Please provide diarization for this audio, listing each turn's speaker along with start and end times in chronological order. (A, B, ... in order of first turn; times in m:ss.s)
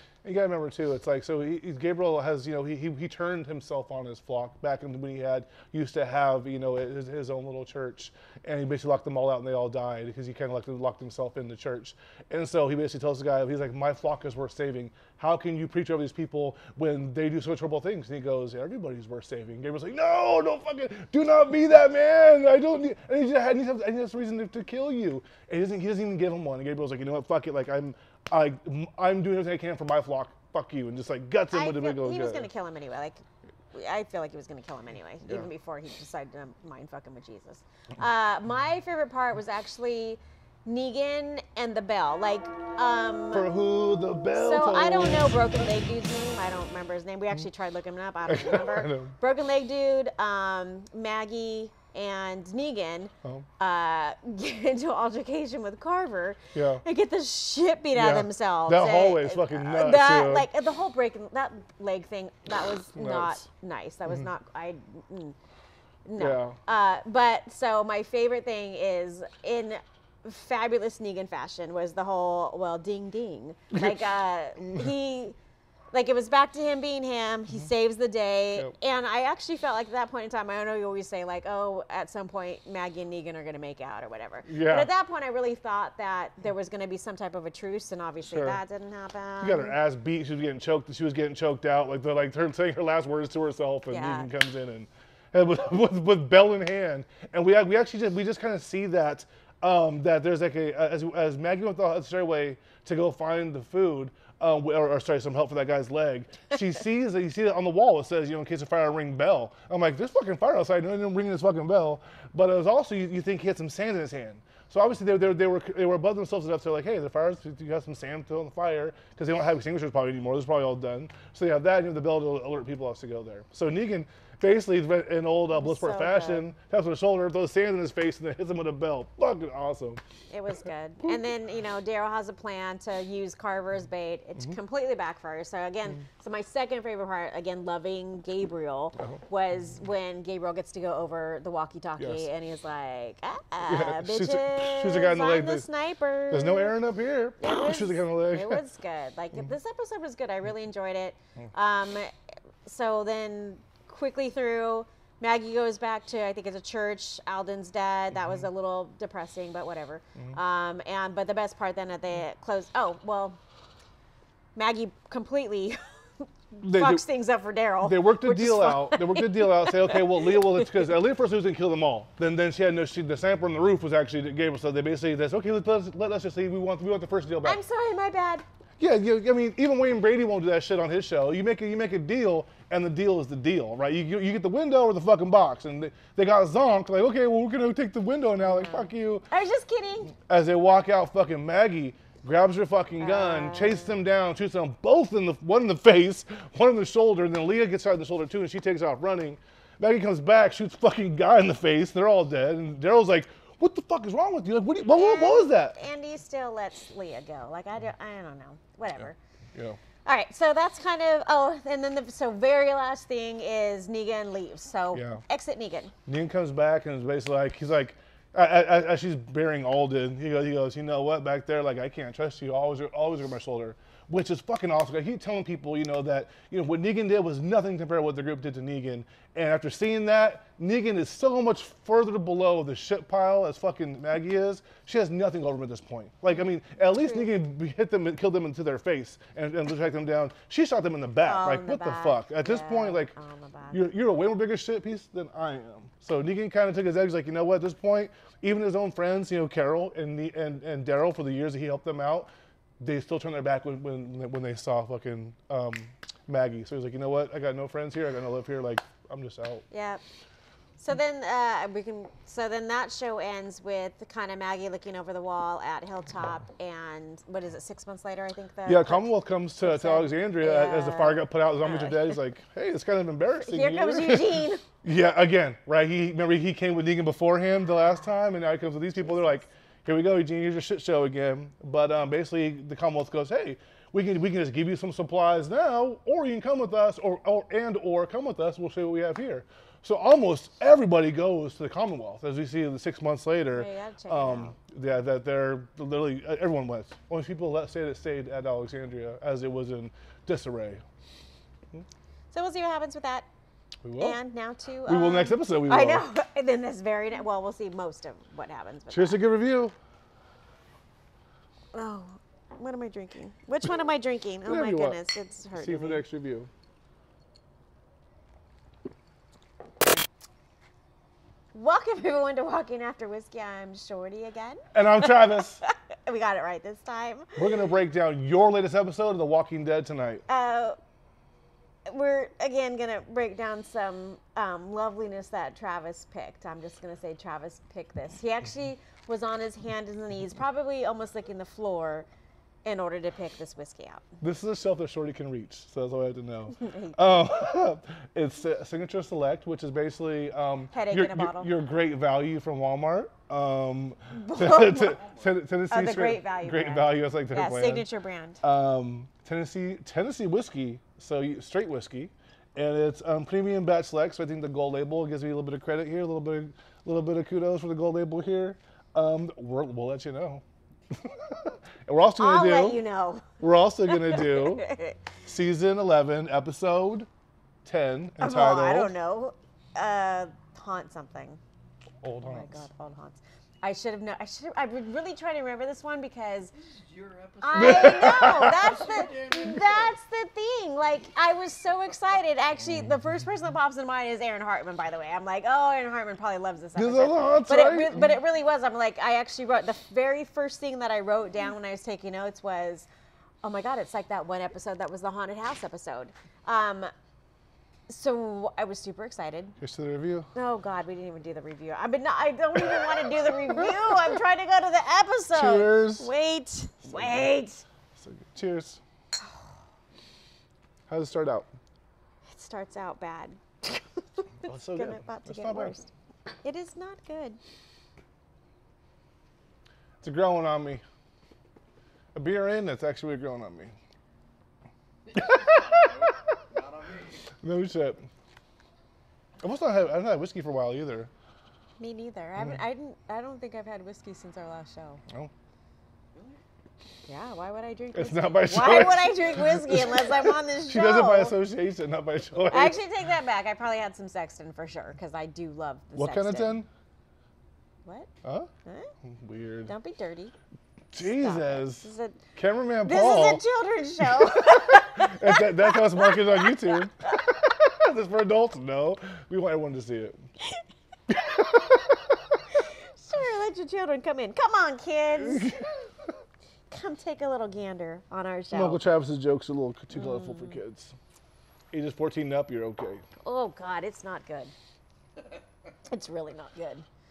0:00.2-0:32.5 A
0:31.5-0:43.5 B
0:43.3-0:45.3 A
0:44.3-1:05.4 B
0:48.2-0:49.2 A
0:56.5-0:56.8 A
0:57.9-1:00.5 A
1:02.9-1:03.4 A
1:06.0-1:15.4 B
1:06.2-1:06.6 A
1:15.9-1:29.8 B
1:24.5-1:24.9 A
1:28.3-1:28.6 A
1:29.4-2:10.0 A
1:33.9-1:34.3 B
2:05.6-2:06.4 B
2:10.3-2:26.7 B
2:22.0-2:22.2 A
2:23.7-2:25.6 A
2:26.3-2:28.6 A
2:27.4-2:32.1 B
2:32.6-2:43.4 B
2:44.6-2:50.8 B
2:46.6-2:47.0 A
2:47.8-2:57.6 A
2:57.4-2:58.4 B
2:58.8-3:09.2 A
3:08.4-3:10.1 B
3:10.3-3:25.8 A
3:13.0-3:13.9 B
3:24.9-3:29.2 B
3:30.0-3:35.9 B
3:34.9-3:35.2 A
3:36.0-4:03.1 A
4:01.2-4:03.8 B
4:03.7-4:12.3 A
4:12.8-4:19.6 A
4:19.7-4:20.0 B
4:20.8-4:29.1 B
4:28.6-5:00.8 A
4:29.6-4:32.2 B
4:33.4-4:34.6 B
4:53.5-4:54.5 B
5:02.3-5:03.3 B
5:03.8-5:04.2 A
5:04.0-5:09.2 B
5:04.8-5:06.0 A
5:08.9-5:09.7 A
5:11.7-5:16.0 B
5:14.4-5:15.0 A
5:15.5-5:16.5 A
5:21.5-5:27.4 B
5:24.7-5:25.6 A
5:27.4-5:30.2 A
5:30.3-5:30.8 B
5:31.9-5:42.1 B
5:42.6-5:44.0 B
5:44.2-5:57.8 A
5:46.6-5:47.2 B
5:50.7-5:51.5 B
5:54.1-5:55.0 B
5:54.8-5:55.2 C
5:55.7-5:58.4 B
5:58.4-6:12.8 A
6:12.2-6:15.0 B
6:13.4-6:14.7 A
6:15.2-6:17.1 A
6:17.6-6:18.9 A
6:18.2-6:21.4 B
6:22.0-6:22.6 A
6:22.2-6:26.5 B
6:26.6-6:30.0 C
6:27.4-6:42.9 B
6:27.6-6:28.7 A
6:36.8-6:38.1 A
6:43.4-6:46.9 B
6:47.9-6:49.6 B
6:49.6-6:50.3 A
6:50.3-6:57.6 B
6:55.3-6:56.1 A
6:56.8-6:57.3 A
6:58.0-6:58.8 A
7:00.9-7:01.5 A
7:02.3-7:05.9 B
7:04.4-7:05.7 A
7:06.4-7:07.4 B
7:10.0-7:10.8 A
7:12.1-7:13.7 A
7:15.1-7:17.2 C
7:15.1-7:16.0 A
7:17.4-7:18.0 A
7:19.4-7:21.1 A
7:21.8-7:25.0 B
7:26.1-7:26.4 C
7:27.1-7:31.3 B
7:27.9-7:32.8 A
7:32.5-7:36.6 B
7:36.0-7:36.7 A
7:38.2-7:38.5 A
7:38.6-7:38.9 B
7:39.0-7:39.7 A
7:39.7-7:40.3 B
7:40.9-7:43.4 A
7:41.0-7:42.2 B
7:42.8-7:46.8 B
7:44.0-7:50.2 A
7:51.1-7:52.4 A
7:52.6-7:55.5 B
7:55.2-7:55.7 A
7:56.7-7:58.8 B
7:58.5-8:00.9 A
7:59.9-8:00.6 B
8:01.7-8:03.0 A
8:03.2-8:04.5 B
8:05.8-8:06.8 B